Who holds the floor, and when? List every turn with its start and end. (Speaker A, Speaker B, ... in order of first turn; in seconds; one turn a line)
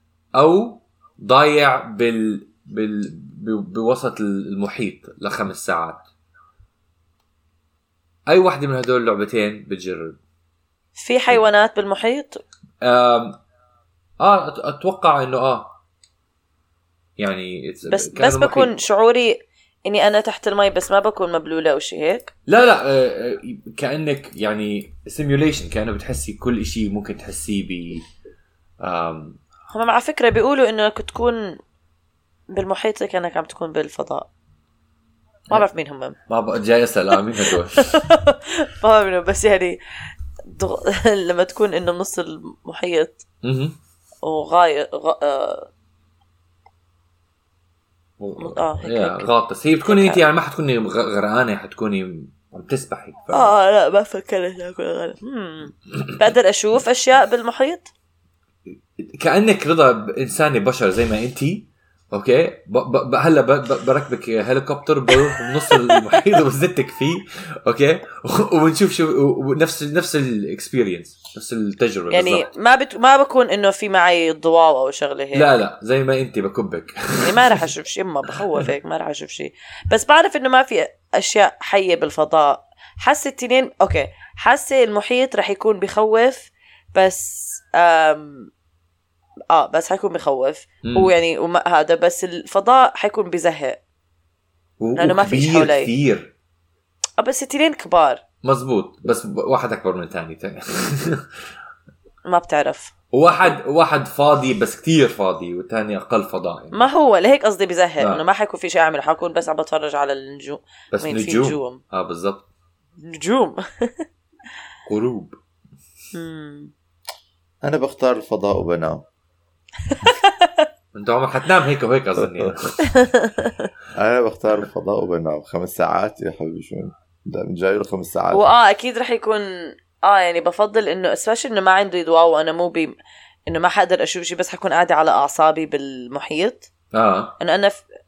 Speaker A: 0.4-6.0
Speaker A: 8.3-10.2
Speaker B: 11.0-12.4
Speaker A: 12.8-13.4
Speaker A: 14.2-15.7
Speaker A: 17.2-18.8
Speaker B: 17.9-22.3
Speaker A: 22.5-28.1
Speaker A: 28.8-29.4
Speaker B: 29.7-31.6
Speaker B: 32.5-34.3
Speaker B: 35.5-36.2
Speaker A: 36.3-38.0
Speaker B: 37.1-39.8
Speaker B: 40.5-43.2
Speaker A: 43.4-43.8
Speaker B: 44.2-45.7
Speaker A: 48.2-53.5
Speaker B: 48.4-49.3
Speaker B: 49.8-50.2
Speaker B: 53.3-57.9
Speaker A: 59.0-72.5
Speaker B: 65.2-66.0
Speaker B: 72.1-75.5
Speaker A: 75.3-77.6
Speaker B: 77.2-88.5
Speaker B: 89.5-93.8
Speaker A: 90.8-91.1
Speaker A: 94.8-96.3
Speaker B: 95.0-95.9
Speaker B: 97.2-98.2
Speaker A: 98.4-101.3
Speaker B: 102.3-102.9
Speaker A: 103.1-106.8
Speaker B: 106.7-111.8
Speaker A: 110.9-112.5
Speaker B: 113.0-114.0
Speaker A: 114.9-115.4
Speaker B: 116.1-116.7
Speaker C: 117.6-119.0
Speaker B: 119.9-120.7
Speaker A: 120.9-122.9
Speaker B: 122.8-123.7
Speaker C: 124.0-128.5
Speaker B: 128.3-132.9
Speaker B: 133.5-136.7
Speaker A: 136.9-137.4
Speaker B: 137.4-137.8